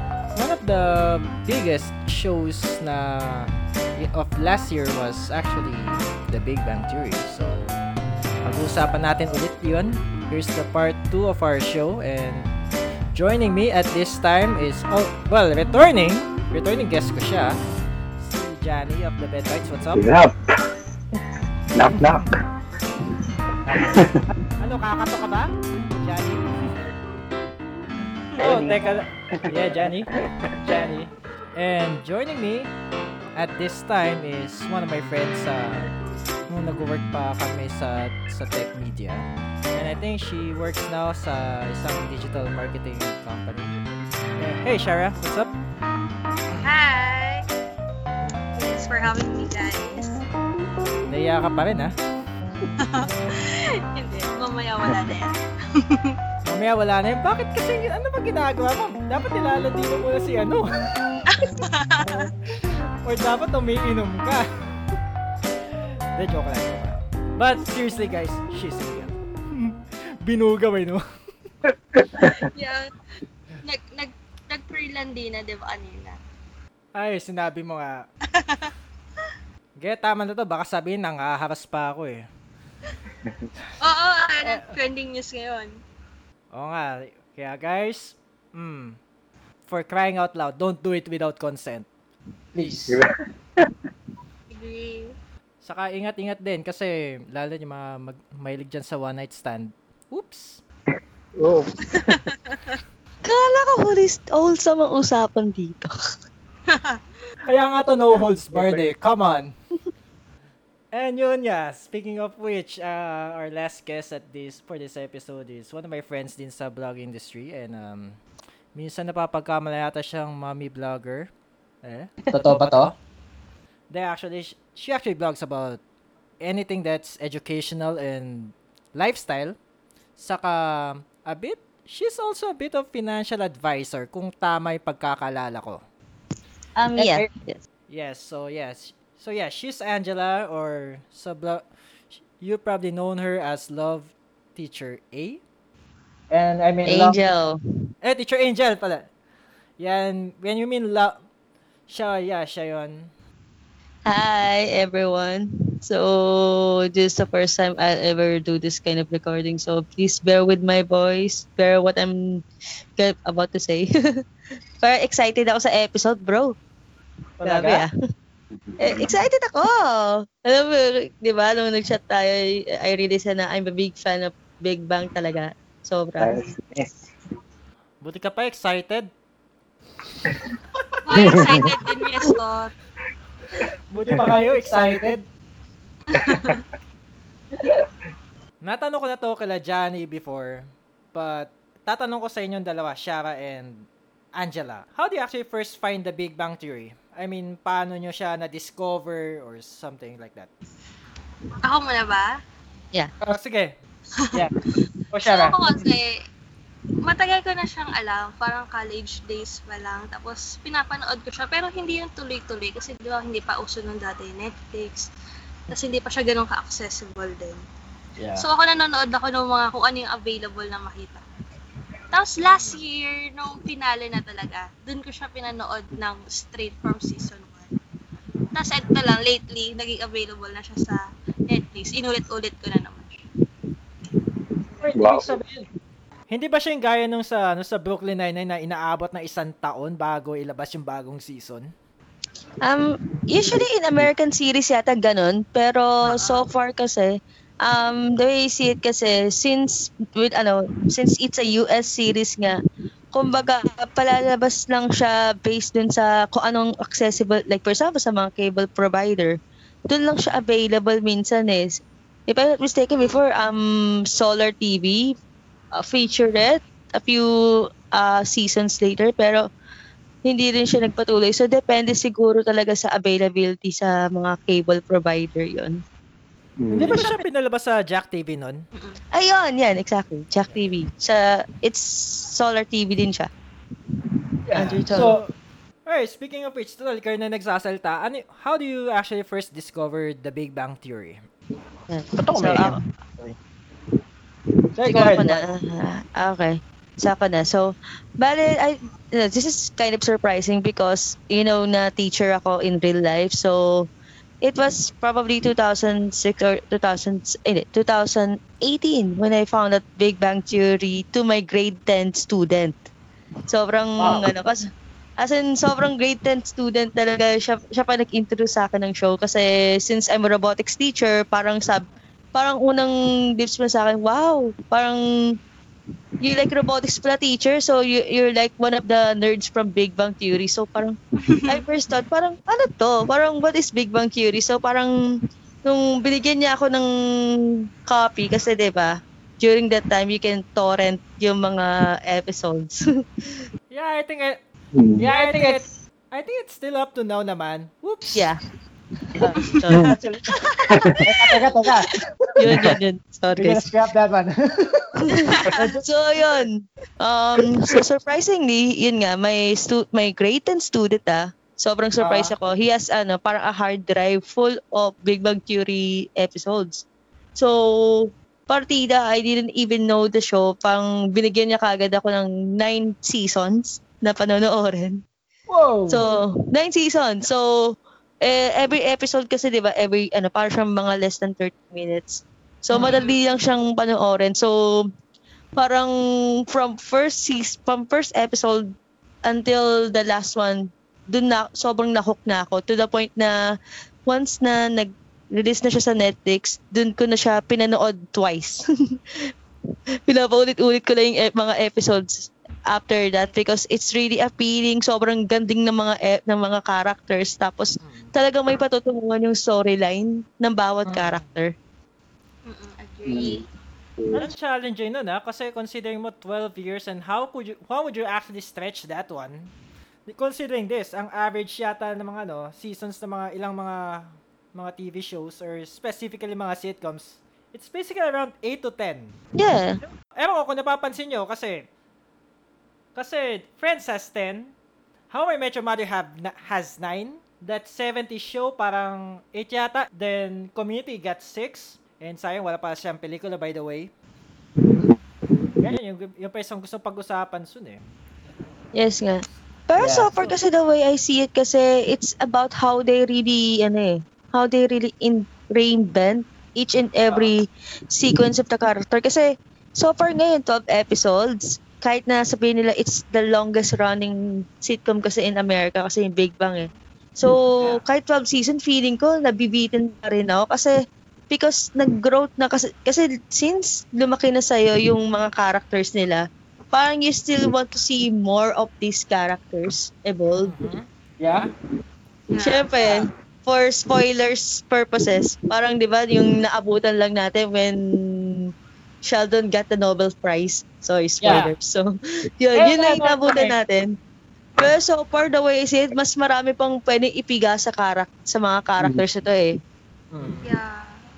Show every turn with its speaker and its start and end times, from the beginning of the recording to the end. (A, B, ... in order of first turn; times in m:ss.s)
0:00.3-0:07.7 A
0:08.4-0:12.5 A
0:13.1-0:17.6 A
0:18.2-0:20.0 A
0:19.9-0:20.3 B
0:21.7-0:22.3 B
0:23.7-0:24.2 B
0:24.6-0:26.7 A
0:28.4-0:30.1 A
0:28.4-0:30.5 B
0:30.6-0:31.1 C
0:31.5-0:32.7 A
0:33.3-0:35.9 A
0:36.5-0:43.7 A
0:44.4-0:45.5 A
0:46.6-0:47.4 D
0:48.5-0:50.1 D
0:51.1-0:51.9 A
0:52.8-0:56.2 D
0:56.4-1:00.7 A
1:01.3-1:02.3 D
1:03.0-1:04.4 A
1:06.2-1:11.0 A
1:11.7-1:12.4 B
1:12.4-1:12.9 D
1:13.6-1:16.2 D
1:17.0-1:18.0 A
1:18.3-1:18.7 D
1:19.8-1:22.2 A
1:23.8-1:25.8 D
1:24.4-1:24.7 A
1:26.5-1:29.0 A
1:29.7-1:31.9 A
1:32.5-1:33.0 C
1:32.9-1:33.7 B
1:34.5-1:35.2 D
1:35.6-1:40.6 A
1:41.4-1:42.3 B
1:42.1-1:42.8 D
1:43.2-1:45.9 E
1:46.7-1:47.0 D
1:47.4-1:49.5 A
1:48.5-1:48.9 B
1:50.9-1:58.2 A
1:58.7-2:01.3 A
2:01.8-2:02.9 A
2:02.3-2:02.9 C
2:03.9-2:05.8 A
2:06.4-2:09.6 A
2:10.2-2:15.8 A
2:16.8-2:17.6 E
2:17.0-2:17.3 C
2:17.9-2:21.6 A
2:22.2-2:25.4 A
2:26.3-2:27.3 C
2:26.8-2:27.6 E
2:28.0-2:29.1 A
2:29.8-2:31.2 A
2:31.9-2:33.1 A
2:34.1-2:42.4 E
2:43.0-2:43.9 E
2:44.8-2:46.5 E
2:47.4-2:47.8 C
2:47.4-2:47.9 E
2:48.7-2:49.2 B
2:48.8-2:56.4 E
2:56.2-2:57.1 B
2:58.0-2:59.1 A
3:01.0-3:02.7 D
3:01.2-3:01.7 B
3:03.9-3:05.2 A
3:04.0-3:05.2 C
3:06.1-3:06.6 D
3:08.6-3:20.5 A
3:21.6-3:22.4 D
3:23.2-3:23.8 A
3:25.1-3:25.8 C
3:25.2-3:26.2 D
3:27.0-3:35.1 D
3:35.7-3:37.6 D
3:38.2-3:38.4 C
3:38.4-3:41.2 D
3:42.1-3:47.7 D
3:48.5-3:53.2 D
3:54.8-3:55.6 C
3:54.9-3:55.4 B
3:56.3-4:01.7 A
4:02.6-4:12.6 E
4:06.2-4:06.5 D
4:13.1-4:25.1 E
4:25.7-4:29.4 E
4:30.2-4:35.8 E
4:36.6-4:37.0 B
4:36.7-4:38.6 A
4:36.8-4:37.2 C
4:38.7-4:39.0 D
4:39.1-4:43.3 E
4:44.5-4:45.2 C
4:44.5-4:45.1 E
4:44.5-4:45.3 A
4:45.8-4:51.2 A
4:51.9-4:52.8 E
4:52.2-4:53.4 C
4:54.8-4:55.5 C
4:54.8-5:03.9 E
5:04.4-5:12.9 E
5:13.5-5:14.7 E
5:14.0-5:14.3 C
5:15.2-5:25.0 E
5:26.2-5:34.9 E
5:31.3-5:31.6 D
5:35.6-5:43.4 E
5:43.7-5:44.4 A
5:44.7-5:45.1 B
5:45.0-5:45.6 C
5:45.1-5:48.3 A
5:48.1-5:48.4 E
5:49.2-5:50.4 C
5:49.2-5:50.3 E
5:49.7-5:50.0 B
5:50.7-5:51.0 B
5:51.0-5:51.9 C
5:51.6-5:53.7 E
5:53.3-5:55.8 C
5:55.1-6:15.0 E
6:02.0-6:02.3 C
6:15.5-6:16.0 C
6:15.9-6:24.8 E
6:22.8-6:23.2 D
6:25.6-6:25.9 E
6:26.5-6:28.7 E
6:29.2-6:33.4 E
6:34.0-6:39.0 E
6:40.1-6:51.5 E
6:47.8-6:48.1 A
6:50.8-6:51.4 A
6:52.4-6:53.4 D
6:53.1-6:53.5 B
6:54.0-6:54.3 B
6:54.1-6:59.5 A
7:00.1-7:09.2 A
7:09.4-7:09.8 E
7:10.2-7:11.6 A
7:12.9-7:14.5 A
7:15.1-7:23.9 A
7:25.6-7:27.8 A
7:28.7-7:50.7 E
7:29.8-7:30.1 C
7:51.3-8:00.7 E
8:00.4-8:00.9 A
8:01.2-8:01.5 C
8:02.3-8:03.1 D
8:02.4-8:08.5 E
8:09.0-8:11.9 E
8:11.2-8:11.5 C
8:12.4-8:13.9 E
8:12.5-8:13.6 C
8:14.6-8:19.6 E
8:20.1-8:20.4 C
8:20.2-8:20.4 A
8:20.4-8:21.0 D